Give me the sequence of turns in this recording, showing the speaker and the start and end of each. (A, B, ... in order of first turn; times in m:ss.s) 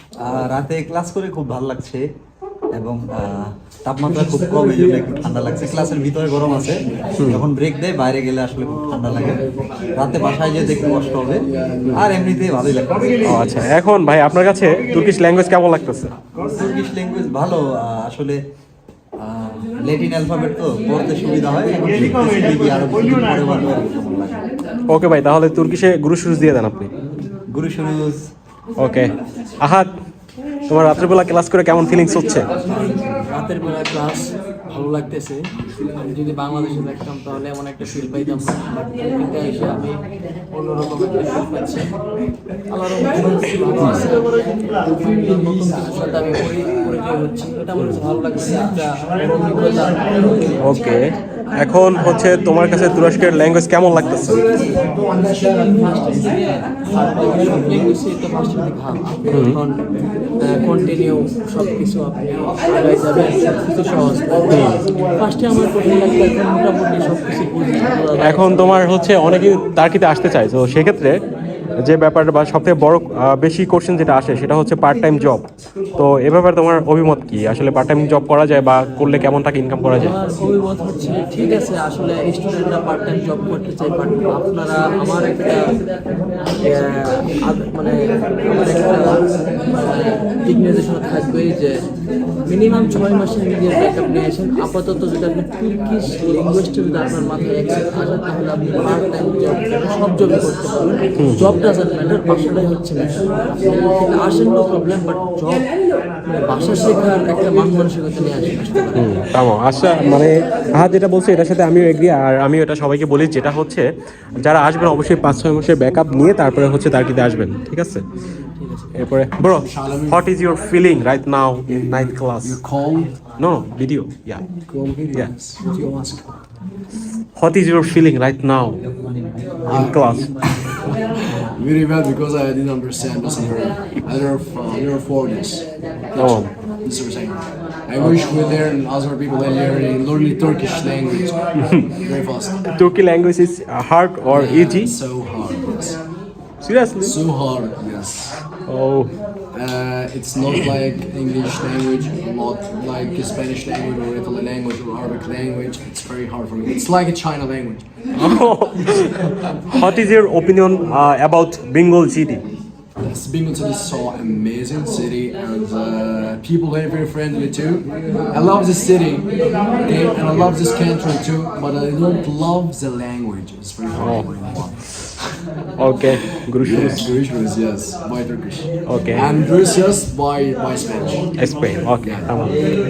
0:00.2-0:02.0 A
0:02.7-0:09.4 A
0:10.0-0:13.7 A
0:13.3-0:16.1 B
0:16.6-0:18.4 A
0:19.2-0:24.4 A
0:24.9-0:26.9 B
0:27.5-0:28.2 A
0:28.8-0:29.1 B
0:29.6-0:29.9 B
0:30.7-0:32.5 B
0:32.7-0:35.4 C
0:36.0-0:41.9 C
0:42.7-0:50.7 C
0:50.6-0:51.0 B
0:51.6-0:54.4 B
0:55.2-0:59.8 C
0:59.3-0:59.6 B
1:00.4-1:08.7 C
1:04.5-1:04.8 B
1:08.2-1:11.2 B
1:11.8-1:15.4 B
1:16.0-1:20.2 B
1:19.9-1:25.6 C
1:26.6-1:31.8 C
1:32.5-1:45.7 C
1:41.2-1:41.5 B
1:46.3-1:49.1 C
1:49.0-1:53.8 B
1:54.4-1:58.0 B
1:58.6-1:59.1 C
1:59.0-2:02.6 B
1:59.4-2:00.3 D
2:01.7-2:03.2 D
2:03.4-2:04.4 B
2:04.7-2:06.3 D
2:07.4-2:08.8 B
2:09.0-2:09.6 A
2:09.7-2:10.3 B
2:09.7-2:10.8 D
2:11.3-2:21.4 D
2:16.2-2:16.5 B
2:21.6-2:21.9 B
2:21.9-2:22.6 D
2:22.7-2:24.9 B
2:24.3-2:26.0 D
2:26.6-2:27.2 B
2:27.0-2:28.4 D
2:28.7-2:29.1 B
2:29.5-2:37.9 D
2:38.2-2:42.4 B
2:43.0-2:49.3 D
2:49.8-2:54.8 D
2:54.0-2:54.3 B
2:55.8-2:57.1 B
2:56.6-3:01.3 D
2:58.9-2:59.3 B
3:01.4-3:02.5 B
3:02.0-3:02.3 D